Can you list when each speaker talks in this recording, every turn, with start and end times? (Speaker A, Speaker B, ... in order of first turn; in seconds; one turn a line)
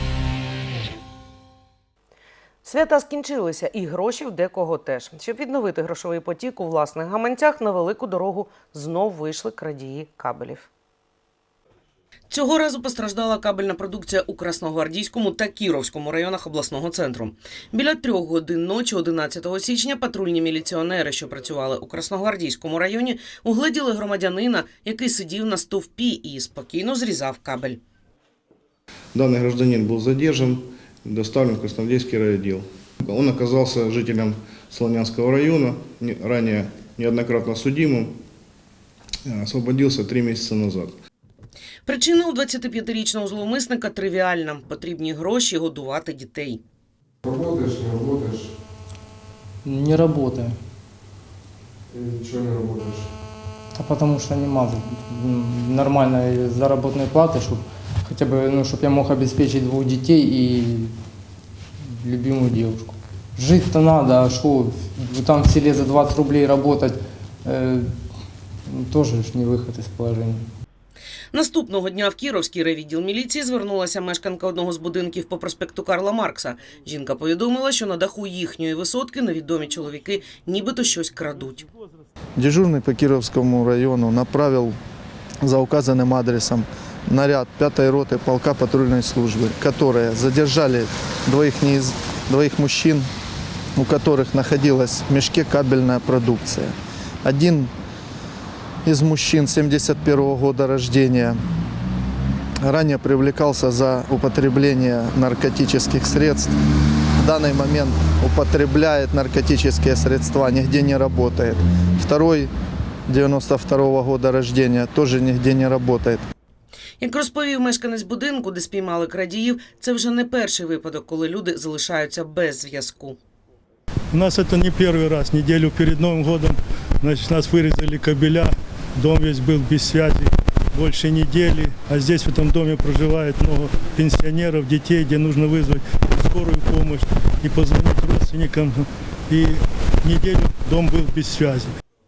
Speaker A: 2.6-10.7
Speaker A: 12.3-27.8
Speaker B: 29.1-38.2
Speaker B: 39.3-41.0
Speaker A: 41.9-46.6
Speaker C: 47.2-48.5
Speaker D: 49.6-50.6
Speaker C: 51.9-53.1
Speaker D: 53.8-60.9
Speaker D: 61.8-67.9
Speaker D: 68.7-70.5
Speaker A: 71.3-81.7
Speaker E: 82.4-84.8
Speaker E: 85.4-93.1
Speaker E: 93.8-97.7
Speaker E: 98.8-101.4
Speaker E: 102.6-106.5
Speaker E: 107.2-112.5
Speaker E: 113.1-116.2
Speaker A: 117.0-123.2
Speaker F: 124.1-141.7